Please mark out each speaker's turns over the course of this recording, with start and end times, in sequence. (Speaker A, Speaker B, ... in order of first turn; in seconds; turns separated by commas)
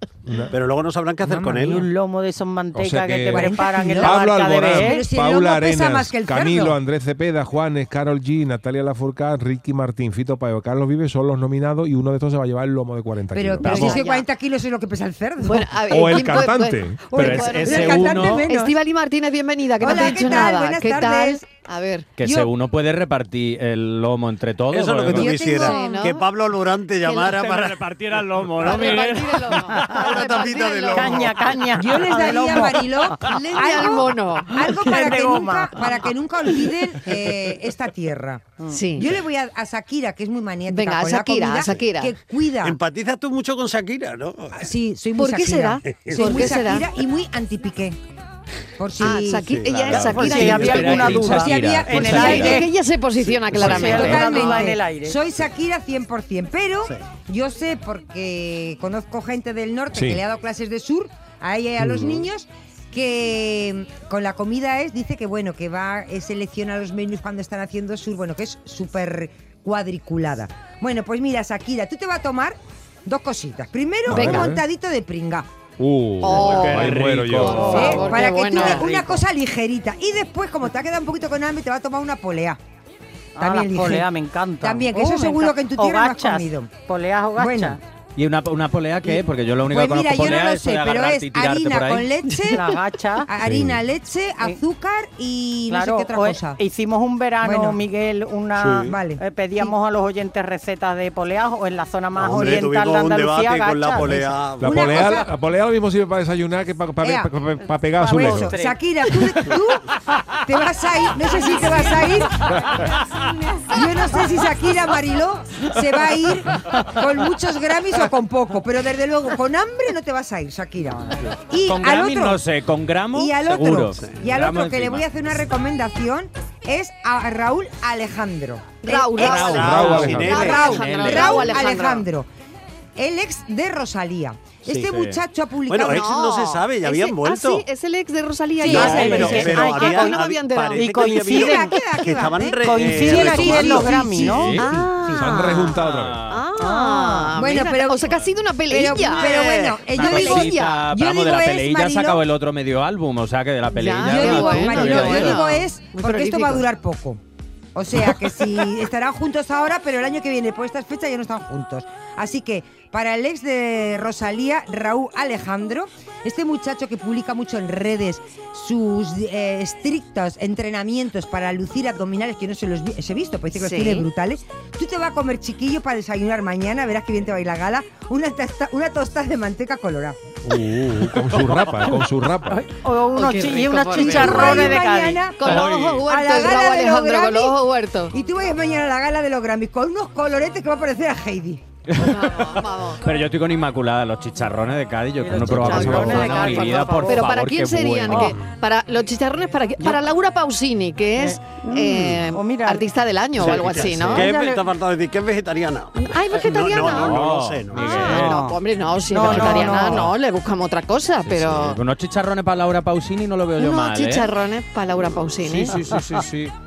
Speaker A: 0.2-0.5, Speaker B: 0.5-1.9, Speaker C: 1.2-1.8, Speaker D: 1.5-5.0, Speaker A: 2.7-14.0, Speaker C: 3.3-6.8, Speaker C: 13.3-16.2, Speaker E: 13.6-14.2, Speaker E: 15.4-22.1, Speaker A: 15.9-18.1, Speaker C: 17.1-18.7, Speaker F: 17.1-18.5, Speaker C: 19.8-21.5, Speaker F: 22.2-25.5, Speaker C: 22.2-22.5, Speaker B: 24.7-27.8, Speaker C: 25.1-25.8, Speaker E: 25.4-26.2, Speaker E: 27.0-27.5, Speaker F: 27.3-30.0, Speaker B: 28.5-28.9, Speaker E: 28.6-31.3, Speaker B: 29.8-31.4, Speaker D: 30.9-33.1, Speaker C: 31.8-42.8, Speaker E: 33.6-34.6, Speaker D: 34.7-35.8, Speaker E: 38.7-39.1, Speaker E: 40.7-42.1, Speaker B: 42.6-44.7, Speaker C: 44.6-48.0, Speaker E: 45.2-46.9, Speaker B: 45.9-46.2, Speaker C: 48.8-49.5, Speaker E: 49.0-51.2, Speaker B: 49.4-50.9, Speaker D: 49.9-52.7, Speaker F: 50.3-52.6, Speaker C: 50.5-52.6, Speaker E: 52.2-54.4, Speaker D: 53.6-55.2, Speaker C: 53.6-75.5, Speaker A: 59.9-60.2, Speaker B: 61.8-62.2, Speaker A: 74.1-74.6, Speaker E: 74.1-74.5, Speaker A: 75.8-77.8, Speaker E: 76.2-78.9, Speaker F: 76.3-77.7, Speaker D: 77.5-79.2, Speaker C: 77.5-82.6, Speaker D: 83.3-87.8, Speaker C: 83.4-84.1, Speaker C: 84.6-86.8, Speaker C: 87.3-87.8, Speaker F: 88.2-92.1, Speaker C: 89.7-96.6, Speaker E: 92.3-92.6, Speaker D: 92.5-93.3, Speaker A: 93.4-93.8, Speaker D: 95.7-104.2, Speaker C: 97.4-97.8, Speaker B: 98.6-98.9, Speaker C: 98.8-99.7, Speaker B: 102.2-105.0, Speaker A: 104.6-108.6, Speaker C: 104.6-105.3, Speaker C: 107.0-107.3, Speaker C: 108.0-109.8, Speaker D: 108.2-108.8, Speaker C: 110.4-112.6, Speaker C: 113.7-122.4, Speaker F: 121.6-125.1, Speaker C: 123.1-132.3, Speaker E: 128.8-132.0, Speaker F: 129.2-131.5, Speaker B: 129.4-131.2, Speaker A: 129.5-130.5, Speaker C: 133.0-136.0, Speaker F: 134.7-135.2, Speaker B: 135.7-137.7, Speaker E: 135.9-140.9, Speaker B: 138.6-143.9, Speaker D: 138.6-140.2, Speaker D: 140.7-141.7, Speaker C: 141.3-145.2, Speaker D: 142.6-144.6, Speaker F: 144.1-144.6, Speaker E: 144.6-150.8, Speaker A: 145.1-146.2, Speaker F: 145.7-146.4, Speaker D: 146.6-147.3, Speaker C: 147.3-152.2, Speaker B: 149.2-149.8, Speaker F: 149.9-155.6, Speaker E: 153.8-156.7, Speaker C: 153.9-157.2, Speaker C: 157.7-180.2, Speaker E: 173.5-174.1, Speaker A: 180.4-182.7, Speaker D: 182.5-185.3, Speaker E: 183.1-184.8, Speaker C: 183.9-187.5, Speaker E: 185.4-188.1, Speaker F: 185.4-186.0, Speaker C: 188.1-191.6, Speaker F: 191.9-198.4, Speaker E: 192.0-193.0, Speaker D: 195.2-197.2, Speaker E: 195.6-204.3, Speaker D: 201.2-202.8, Speaker D: 203.4-204.6, Speaker B: 203.4-208.0, Speaker F: 203.5-204.2, Speaker E: 205.9-207.2, Speaker F: 206.8-208.5, Speaker E: 207.7-211.8, Speaker D: 207.9-208.5, Speaker D: 209.1-210.1, Speaker F: 209.2-210.1, Speaker F: 211.2-214.3, Speaker E: 213.6-215.8, Speaker F: 215.4-216.5